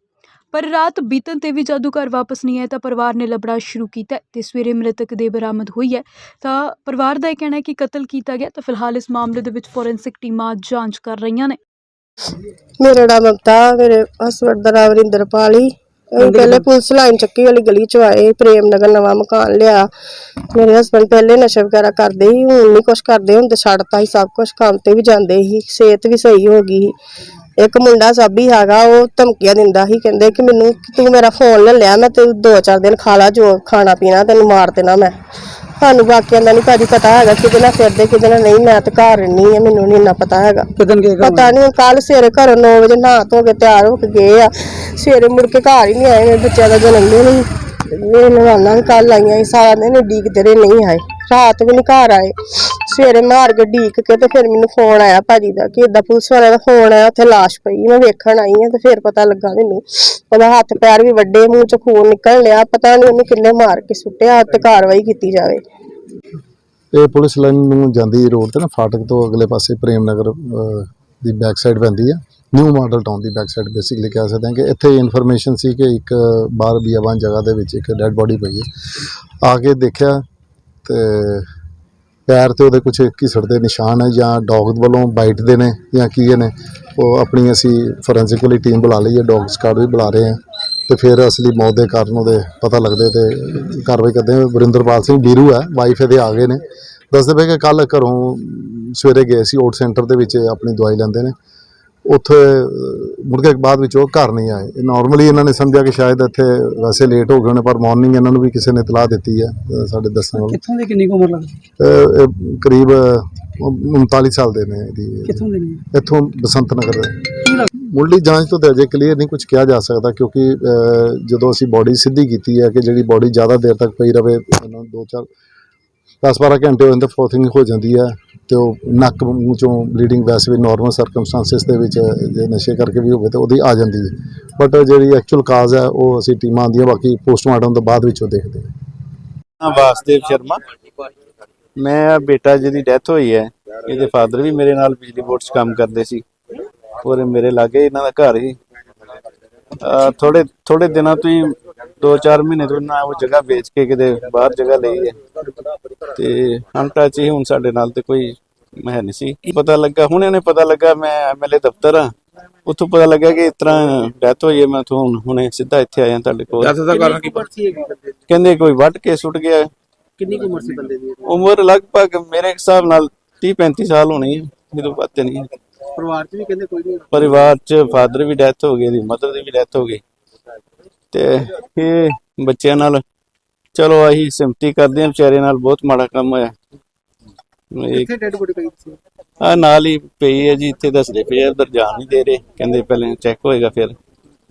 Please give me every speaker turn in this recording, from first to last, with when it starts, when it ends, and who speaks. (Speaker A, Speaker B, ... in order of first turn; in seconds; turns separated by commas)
Speaker A: 0.5-11.6, Speaker B: 12.8-19.9, Speaker C: 16.2-16.6, Speaker B: 20.5-26.9, Speaker B: 27.6-35.1, Speaker B: 35.8-40.7, Speaker C: 40.8-41.5, Speaker B: 41.2-65.6, Speaker D: 66.9-78.7, Speaker D: 79.4-80.2, Speaker D: 80.8-81.5, Speaker D: 82.3-101.3, Speaker D: 102.1-110.6, Speaker C: 110.5-111.5, Speaker D: 111.8-125.3, Speaker C: 115.4-115.7, Speaker D: 126.2-138.7, Speaker E: 139.6-140.6, Speaker E: 141.8-146.2, Speaker E: 147.0-148.6, Speaker E: 149.8-155.2, Speaker E: 156.1-162.1, Speaker E: 162.7-167.1, Speaker C: 166.8-168.2, Speaker E: 168.3-169.7, Speaker C: 170.2-171.3, Speaker E: 171.2-175.5, Speaker C: 176.0-177.3, Speaker E: 177.1-180.0, Speaker E: 181.1-183.0, Speaker E: 183.8-186.5, Speaker E: 187.8-188.1, Speaker C: 187.9-189.0, Speaker E: 189.4-193.9